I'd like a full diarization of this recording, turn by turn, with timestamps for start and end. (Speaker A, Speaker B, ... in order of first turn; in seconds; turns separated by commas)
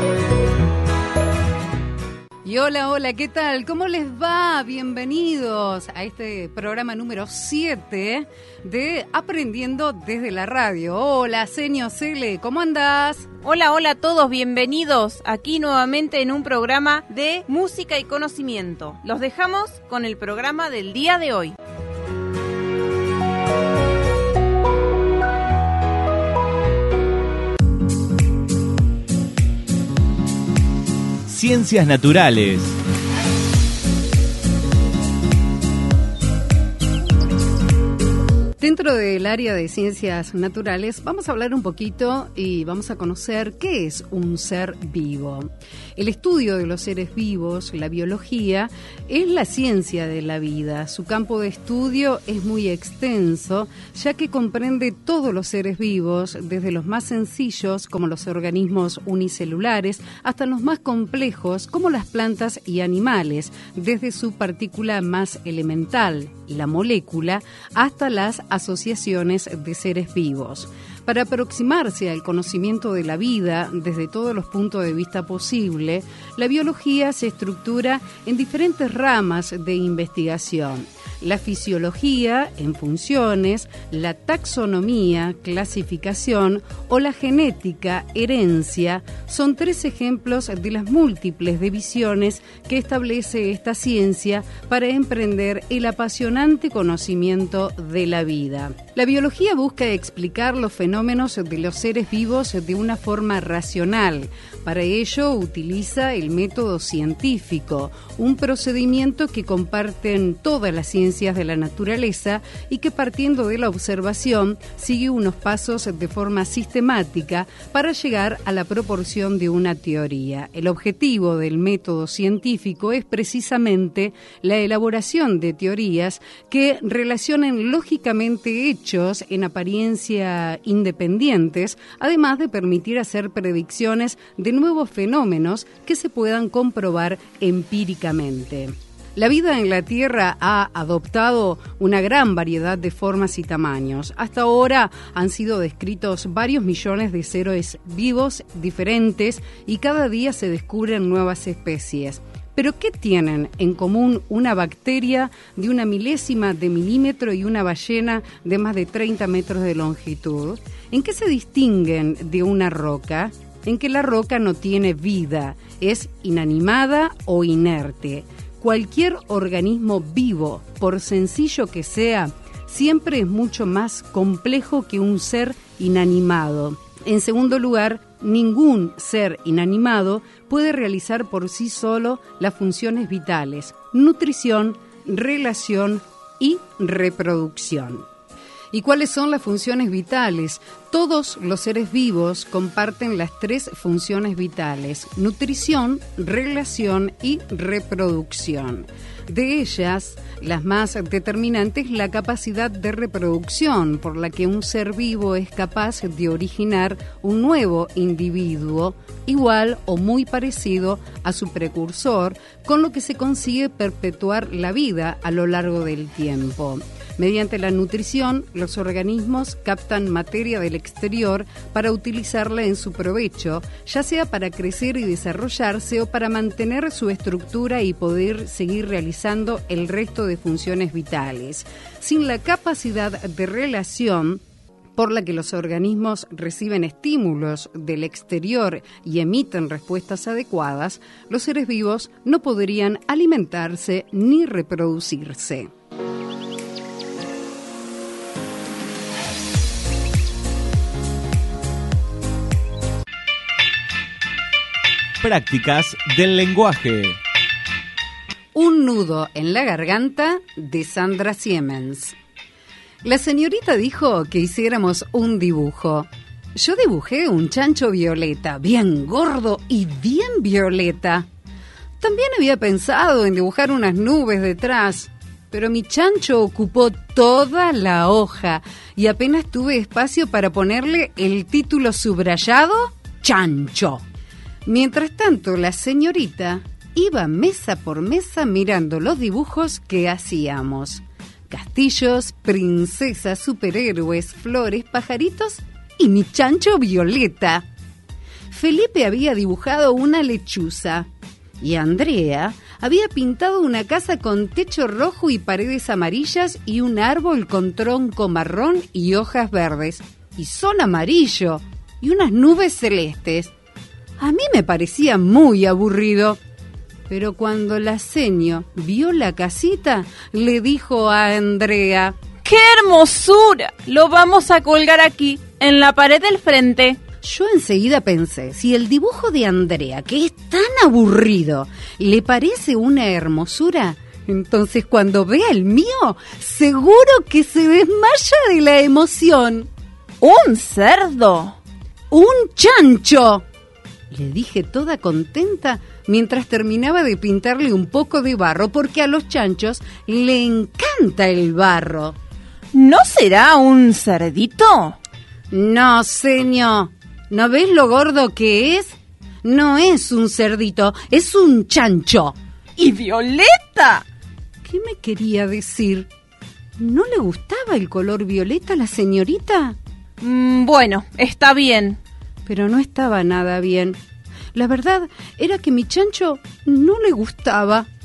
Speaker A: 2.5-13.3, Speaker B: 13.4-21.6, Speaker C: 31.3-32.8, Speaker A: 38.6-188.1, Speaker A: 188.7-234.4, Speaker A: 235.0-245.7, Speaker C: 255.2-257.2, Speaker A: 258.6-262.2, Speaker A: 263.0-271.3, Speaker A: 272.0-284.0, Speaker A: 284.7-297.7, Speaker A: 298.5-301.1, Speaker A: 301.6-313.5, Speaker A: 314.2-316.4, Speaker A: 317.1-322.2, Speaker B: 322.4-327.0, Speaker A: 327.2-339.7, Speaker B: 340.2-341.6, Speaker A: 342.1-343.4, Speaker A: 344.1-352.2, Speaker B: 352.7-355.0, Speaker A: 355.5-362.4, Speaker B: 362.8-364.1, Speaker A: 364.6-366.1, Speaker A: 366.8-369.8, Speaker B: 370.2-372.0, Speaker A: 372.5-374.0, Speaker A: 374.5-377.9